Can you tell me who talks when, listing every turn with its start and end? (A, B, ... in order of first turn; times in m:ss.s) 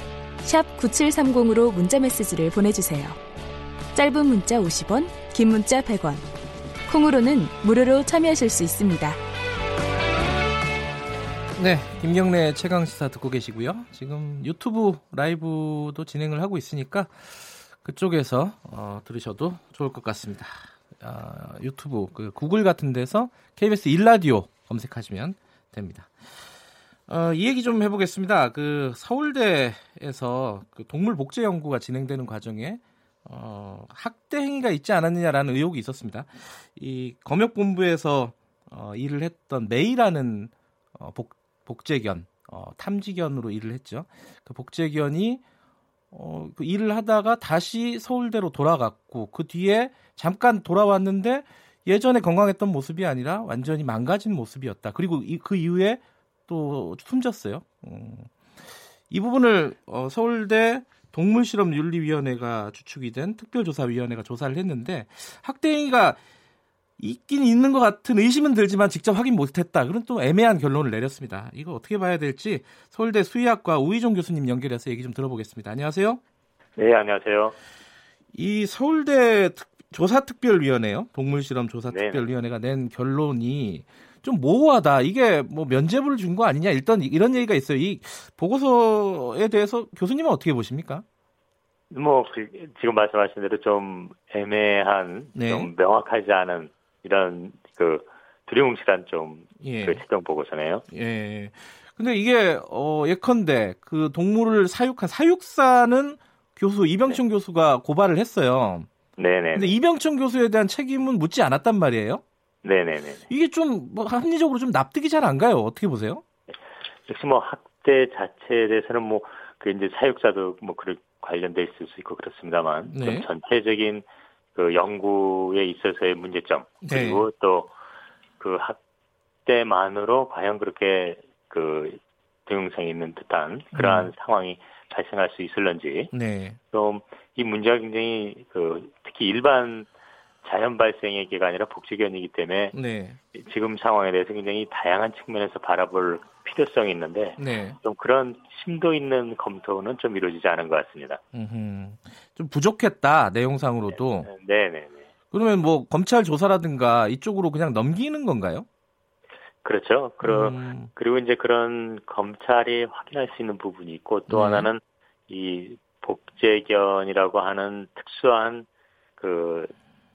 0:00.4-0:03.2 A
0:03.9-0:06.3 A
0:06.9-0:09.2 A
0:11.6-0:26.1 B
0:27.1-0:45.4 B
0:46.1-0:58.3 B
0:59.1-1:06.2 B
1:07.0-1:16.2 B
1:16.8-1:17.6 C
1:18.3-1:31.0 B
1:21.9-1:22.3 C
1:31.9-1:40.8 C
1:35.4-1:35.7 B
1:39.6-1:40.0 B
1:40.9-1:48.9 B
1:49.2-1:49.8 C
1:49.5-1:52.2 B
1:52.6-1:53.3 C
1:53.3-1:56.2 B
1:56.5-2:07.8 C
2:02.9-2:03.3 B
2:06.8-2:07.3 B
2:08.4-2:08.8 C
2:09.4-2:16.1 C
2:13.7-2:14.1 B
2:16.1-2:16.6 B
2:16.7-2:19.9 C
2:20.4-2:22.8 C
2:22.7-2:23.2 B
2:23.3-2:31.2 C
2:27.4-2:27.8 B
2:31.3-2:34.3 B
2:33.9-2:35.1 C
2:35.3-2:38.7 B
2:39.6-2:49.7 C
2:40.2-2:40.9 B
2:44.3-2:44.7 B